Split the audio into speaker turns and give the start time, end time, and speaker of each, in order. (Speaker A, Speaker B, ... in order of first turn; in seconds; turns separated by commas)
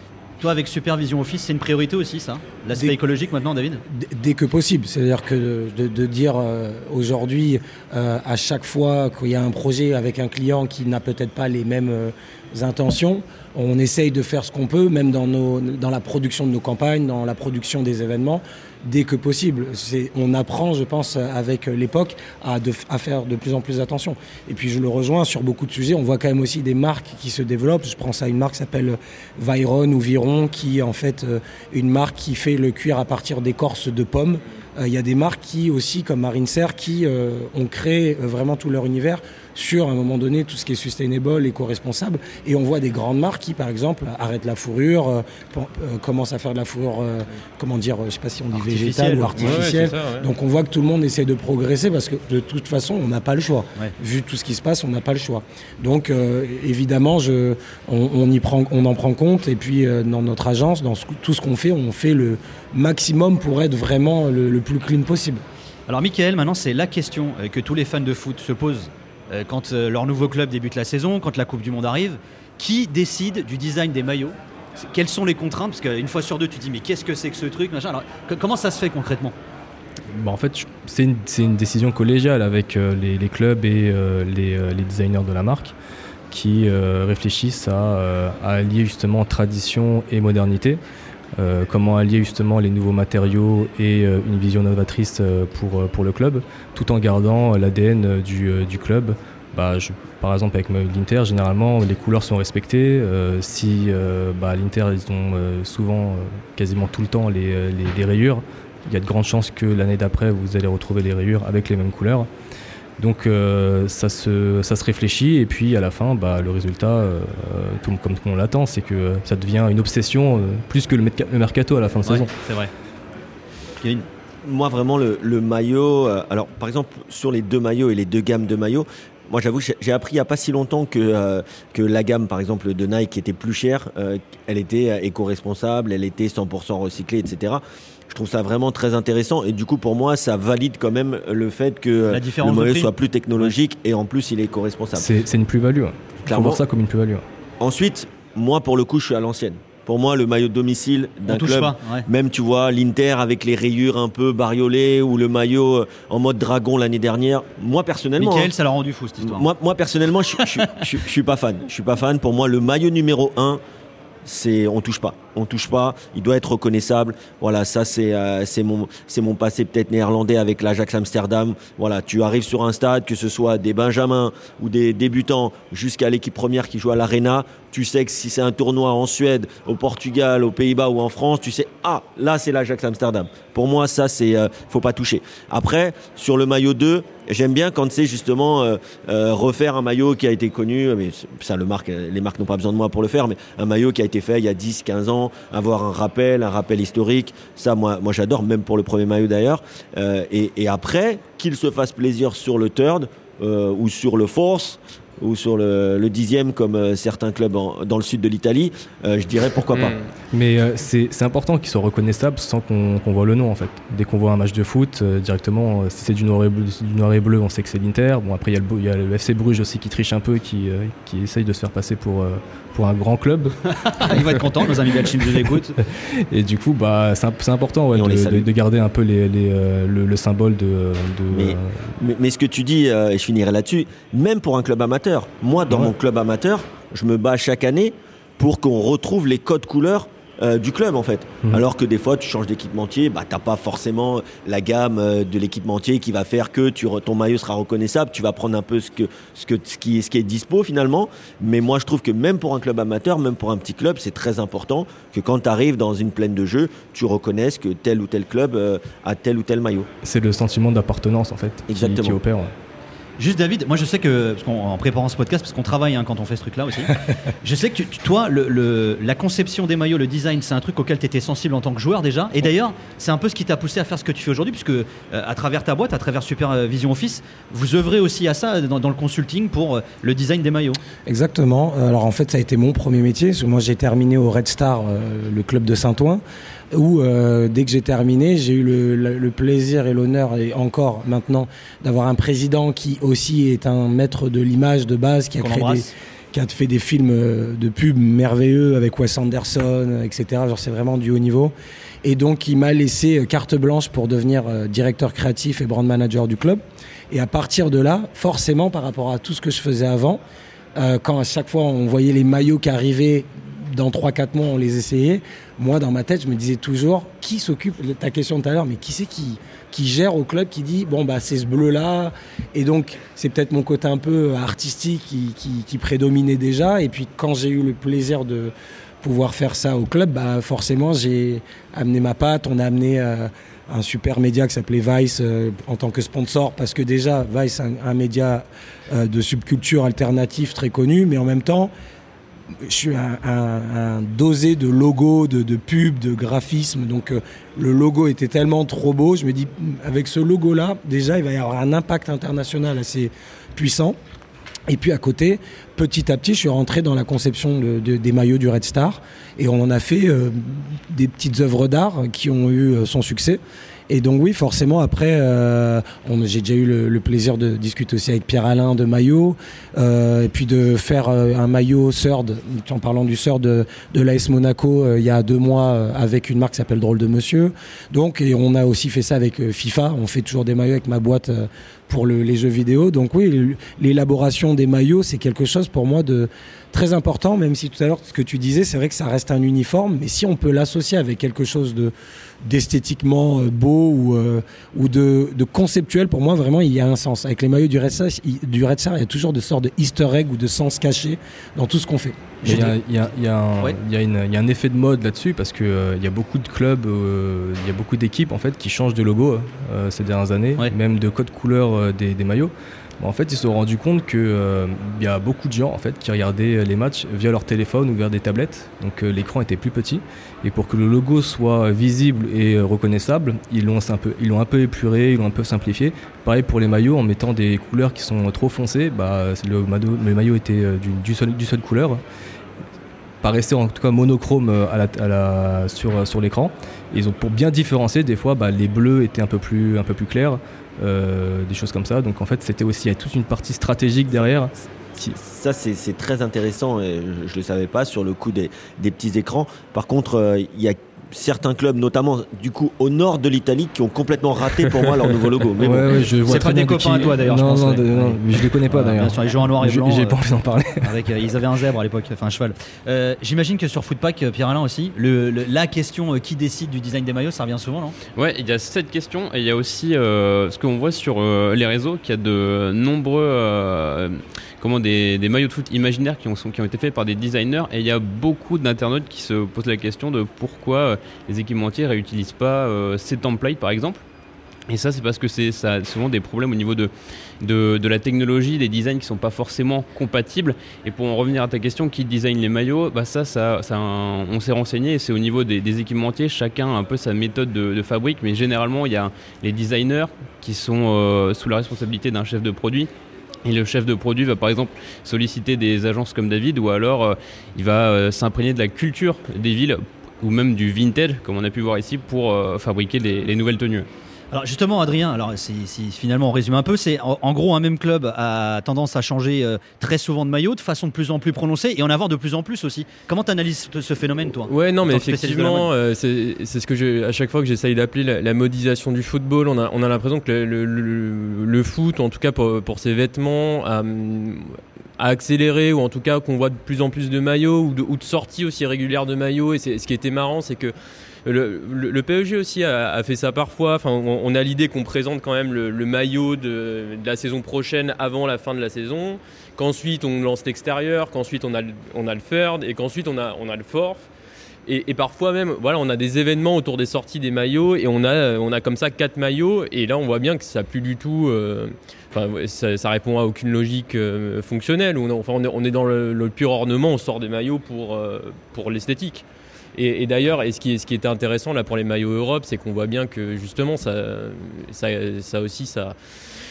Speaker A: 0.4-3.8, Speaker B: 3.9-65.4, Speaker A: 48.6-49.6, Speaker C: 49.3-50.3, Speaker A: 65.9-79.3, Speaker D: 80.1-85.7, Speaker D: 86.3-90.8, Speaker D: 91.4-112.3, Speaker D: 113.0-122.3, Speaker A: 122.0-122.7, Speaker A: 123.8-124.1, Speaker E: 124.4-145.1, Speaker A: 142.1-142.9, Speaker D: 144.9-147.2, Speaker E: 146.3-146.6, Speaker E: 147.6-158.5, Speaker A: 151.2-152.1, Speaker A: 158.2-159.4, Speaker E: 159.2-163.6, Speaker E: 164.2-210.0, Speaker C: 209.7-210.1, Speaker D: 210.3-224.1, Speaker A: 223.8-225.8, Speaker D: 225.8-231.9, Speaker E: 227.9-228.5, Speaker E: 231.3-259.9, Speaker D: 260.0-262.5, Speaker E: 261.7-262.2, Speaker A: 263.2-280.8, Speaker B: 281.1-310.2, Speaker A: 295.4-295.9, Speaker B: 310.8-341.7, Speaker B: 342.6-354.0, Speaker B: 354.7-391.9, Speaker B: 392.4-402.5, Speaker D: 402.4-432.0, Speaker A: 402.4-402.7, Speaker D: 433.2-445.1, Speaker E: 445.0-456.1, Speaker D: 455.6-460.9, Speaker A: 456.2-460.2, Speaker A: 460.8-467.9, Speaker F: 468.1-484.0, Speaker F: 484.7-502.9, Speaker F: 503.4-513.9, Speaker A: 514.3-525.7, Speaker C: 524.5-540.7, Speaker C: 541.2-554.1, Speaker C: 554.6-575.9